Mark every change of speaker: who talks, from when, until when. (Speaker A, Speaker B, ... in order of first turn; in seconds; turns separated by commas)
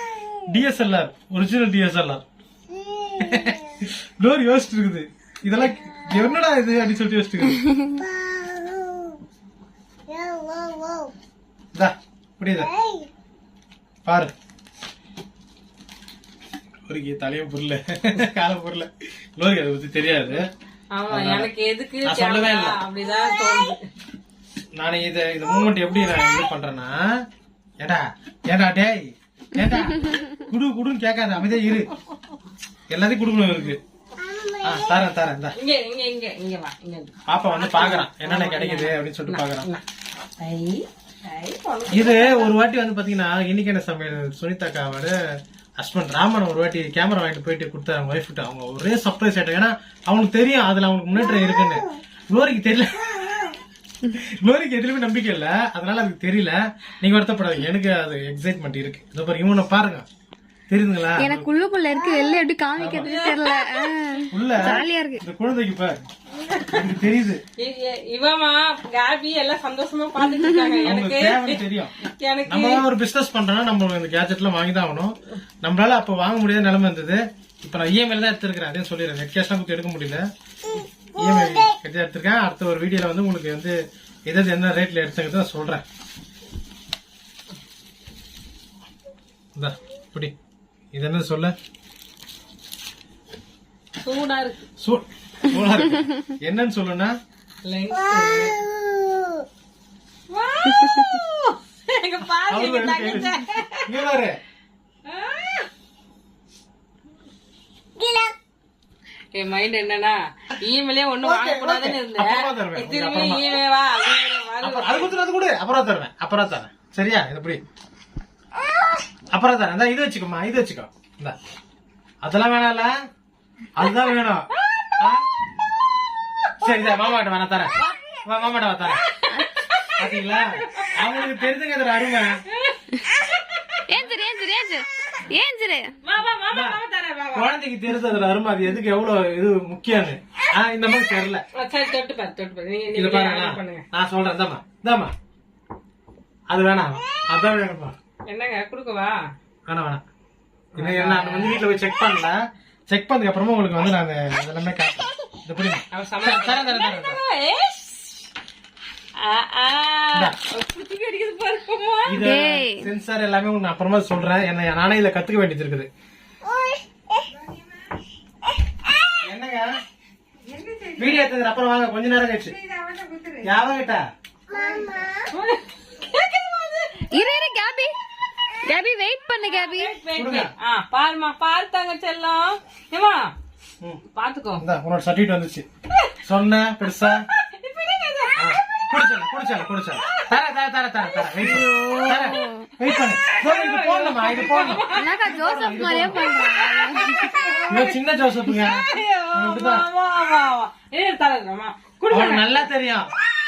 Speaker A: 0.4-2.2, Speaker A: 3.1-7.8, Speaker B: 10.3-10.7, Speaker A: 11.7-12.7, Speaker A: 14.0-14.3, Speaker A: 16.9-20.4, Speaker C: 20.9-23.8, Speaker A: 21.1-21.5, Speaker A: 22.0-22.8, Speaker A: 24.8-27.0, Speaker A: 27.8-31.9, Speaker A: 32.9-33.8, Speaker A: 34.6-35.5, Speaker C: 35.5-39.8, Speaker A: 37.3-39.7, Speaker C: 40.4-42.5, Speaker A: 41.9-45.1, Speaker A: 45.8-53.4, Speaker A: 54.1-60.0, Speaker A: 60.7-61.5, Speaker B: 61.2-65.2, Speaker A: 62.8-63.1, Speaker C: 62.9-64.2, Speaker A: 64.3-66.0, Speaker C: 66.4-66.9, Speaker A: 66.7-67.4, Speaker C: 67.6-72.8, Speaker B: 70.3-70.8, Speaker A: 70.8-71.9, Speaker A: 72.5-80.3, Speaker A: 81.1-83.8, Speaker A: 84.3-85.8, Speaker A: 89.5-90.3, Speaker A: 90.9-91.5, Speaker C: 94.0-94.7, Speaker A: 94.8-97.1, Speaker C: 97.6-98.6, Speaker C: 100.3-103.9, Speaker A: 102.5-104.4, Speaker C: 105.1-105.7, Speaker B: 108.0-108.3, Speaker C: 109.3-115.1, Speaker A: 111.2-113.4, Speaker A: 114.6-117.6, Speaker A: 119.3-121.3, Speaker A: 122.2-122.9, Speaker A: 123.8-125.2, Speaker A: 126.6-127.7, Speaker A: 128.2-129.0, Speaker C: 129.2-129.9, Speaker A: 130.0-132.4, Speaker C: 132.5-134.0, Speaker B: 133.9-135.9, Speaker C: 136.0-137.6, Speaker A: 136.5-136.8, Speaker A: 137.3-141.4, Speaker C: 141.5-143.8, Speaker A: 142.9-145.1, Speaker A: 146.5-147.9, Speaker C: 148.3-149.2, Speaker A: 149.7-150.0, Speaker A: 150.8-157.2, Speaker C: 150.8-151.6, Speaker C: 155.9-158.3, Speaker C: 159.2-162.2, Speaker A: 162.1-165.9, Speaker B: 162.2-162.9, Speaker A: 169.2-169.7, Speaker B: 170.5-171.0, Speaker A: 170.9-172.6, Speaker B: 172.6-173.4, Speaker A: 173.4-174.0, Speaker B: 174.5-175.1, Speaker C: 175.3-176.9, Speaker B: 177.1-177.9, Speaker B: 178.6-179.9, Speaker C: 179.4-183.3, Speaker A: 180.1-180.5, Speaker C: 184.1-184.6, Speaker A: 184.6-185.7, Speaker A: 186.2-187.2, Speaker C: 187.4-188.8, Speaker A: 188.4-196.4, Speaker B: 191.5-192.7, Speaker C: 192.2-192.5, Speaker C: 193.2-195.2, Speaker B: 194.9-197.3, Speaker C: 196.3-202.5, Speaker A: 197.7-198.8, Speaker A: 199.3-199.8, Speaker A: 202.1-203.1